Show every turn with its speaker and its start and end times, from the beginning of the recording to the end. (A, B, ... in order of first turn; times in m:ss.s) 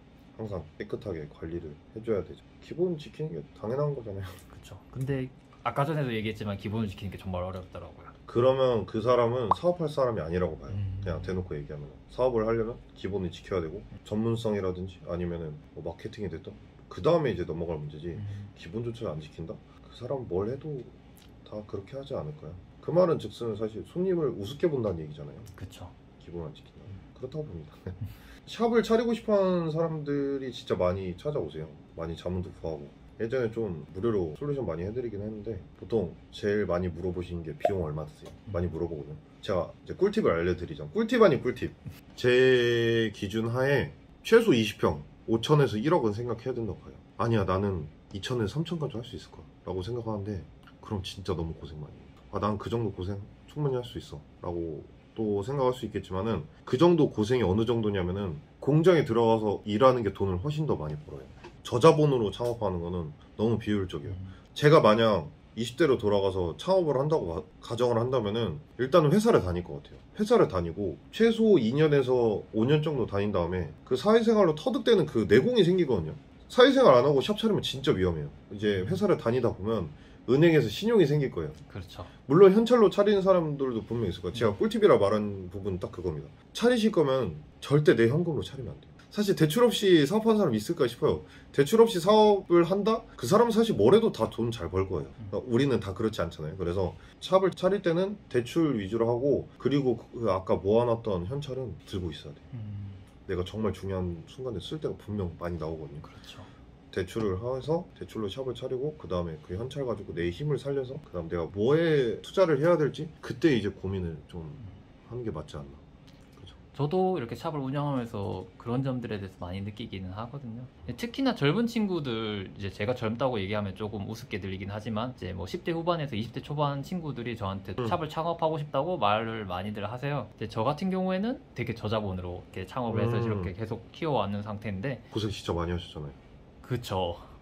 0:00.4-0:04.4 A
0:04.5-0:08.1 B
0:08.3-0:25.5 A
0:10.7-0:11.5 B
0:18.1-0:18.5 B
0:25.5-0:25.9 B
0:26.2-1:21.6 A
1:04.0-1:04.4 B
1:18.7-1:19.0 B
1:21.7-1:22.1 B
1:22.2-1:42.4 A
1:42.5-1:43.0 B
1:43.2-1:46.1 A
1:46.0-1:46.5 B
1:46.9-1:55.8 A
1:56.7-2:15.0 B
2:12.9-2:13.5 A
2:15.1-2:16.2 A
2:16.6-2:17.3 B